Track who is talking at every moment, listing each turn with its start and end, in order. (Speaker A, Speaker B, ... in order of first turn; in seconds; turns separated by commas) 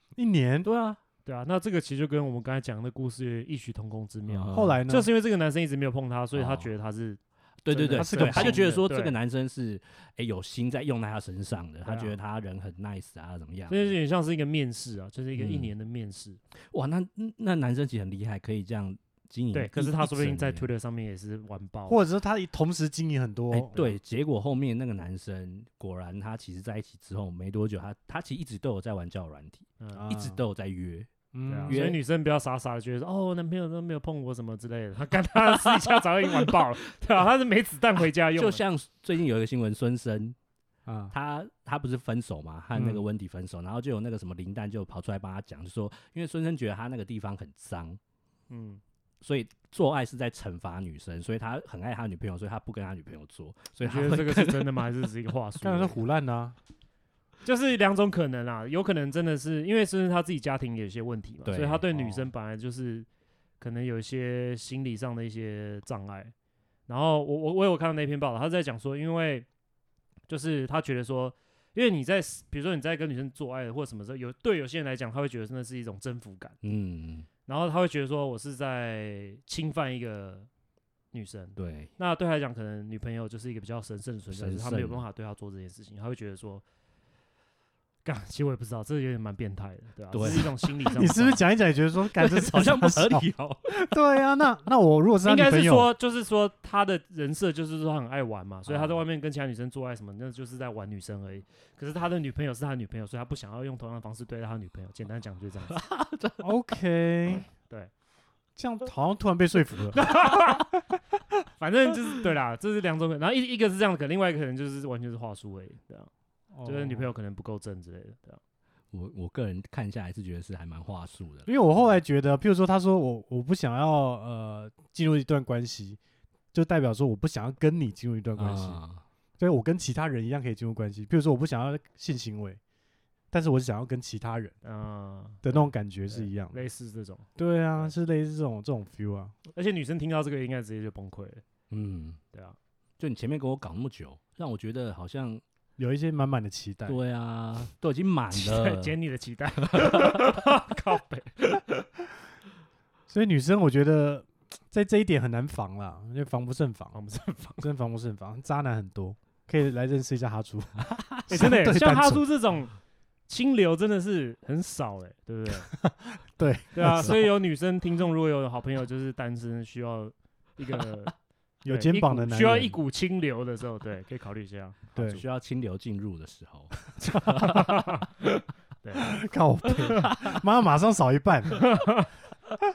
Speaker A: 0.2-0.7, Speaker B: 0.6-1.0, Speaker C: 1.2-9.2, Speaker B: 4.3-4.8, Speaker A: 4.5-5.1, Speaker B: 6.3-6.7, Speaker B: 7.7-13.9, Speaker A: 8.0-8.6, Speaker C: 11.8-12.2, Speaker C: 13.7-16.4, Speaker B: 15.4-15.7, Speaker B: 16.7-20.7, Speaker C: 19.5-22.0, Speaker A: 21.9-23.9, Speaker B: 23.5-31.1, Speaker C: 29.8-30.1, Speaker A: 29.9-30.4, Speaker A: 31.3-31.8, Speaker C: 31.5-38.6, Speaker B: 31.7-32.0, Speaker B: 35.5-36.6, Speaker B: 38.4-40.4, Speaker A: 40.9-41.1, Speaker B: 41.1-48.0, Speaker A: 42.8-43.1, Speaker C: 48.5-48.8, Speaker B: 49.2-54.9, Speaker C: 53.8-56.0, Speaker A: 55.6-56.6, Speaker C: 57.5-63.1, Speaker B: 61.5-62.3, Speaker C: 63.6-66.3, Speaker C: 66.9-69.5, Speaker C: 70.3-76.6, Speaker B: 76.6-77.3, Speaker C: 77.5-80.5, Speaker C: 81.1-86.6, Speaker B: 81.6-81.9, Speaker B: 84.3-85.0, Speaker C: 88.0-91.4, Speaker B: 90.1-90.7, Speaker A: 90.2-95.9, Speaker B: 92.1-93.8, Speaker C: 95.2-105.8, Speaker B: 98.7-99.0, Speaker B: 105.7-106.5, Speaker A: 106.4-107.5, Speaker C: 107.7-107.9, Speaker A: 108.6-110.0, Speaker C: 109.9-110.7, Speaker C: 111.6-116.1, Speaker A: 116.5-117.1, Speaker C: 116.6-118.4, Speaker B: 118.9-121.6, Speaker A: 121.5-126.0, Speaker A: 126.5-128.8, Speaker B: 128.4-129.0, Speaker A: 129.4-132.6, Speaker A: 133.3-134.6, Speaker C: 134.6-137.3, Speaker A: 135.4-136.6, Speaker A: 137.4-139.3, Speaker C: 139.5-141.4, Speaker B: 141.7-142.2, Speaker C: 142.3-142.6, Speaker B: 143.0-145.4, Speaker A: 145.8-147.0, Speaker B: 146.9-149.0, Speaker C: 148.3-151.6, Speaker B: 149.6-150.4, Speaker A: 153.1-156.9, Speaker C: 156.9-157.7, Speaker A: 157.6-162.2, Speaker C: 161.3-162.8, Speaker C: 163.3-165.7, Speaker A: 165.7-167.3, Speaker C: 166.7-171.1, Speaker A: 171.6-172.8, Speaker C: 171.7-174.8, Speaker A: 174.9-175.2, Speaker B: 174.9-176.9, Speaker C: 177.2-178.1, Speaker A: 177.2-177.8, Speaker C: 178.8-179.2, Speaker A: 179.0-181.7, Speaker C: 181.5-182.1